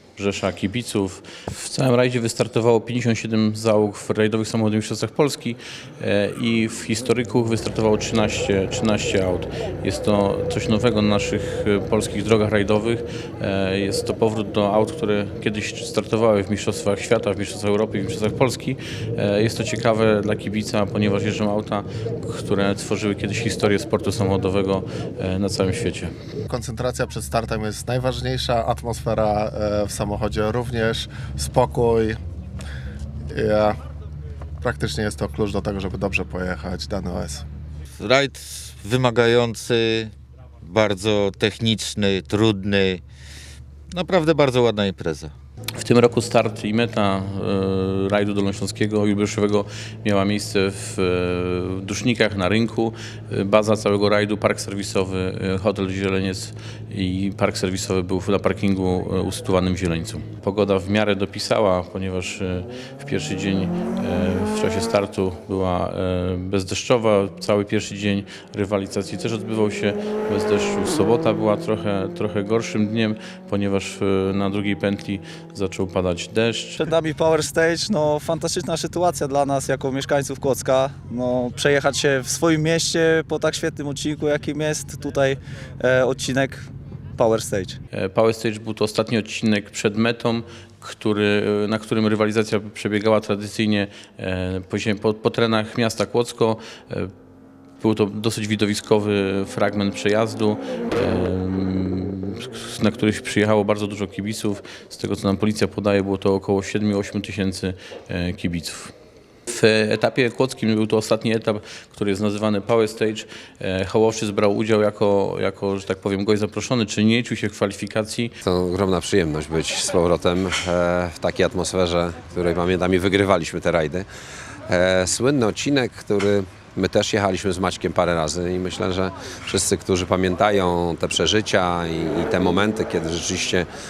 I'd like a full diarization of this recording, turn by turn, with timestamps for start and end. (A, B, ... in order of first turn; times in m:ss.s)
0:00.2-0:26.1 A
0:26.5-0:32.2 B
0:33.3-0:33.8 B
0:34.6-0:37.4 B
0:38.0-0:43.0 C
0:43.9-0:45.3 C
0:45.8-1:16.9 A
1:16.8-1:27.8 D
1:27.9-1:37.1 A
1:37.8-1:48.9 A
1:49.5-1:58.4 A
1:58.4-2:04.1 E
2:04.7-2:13.7 E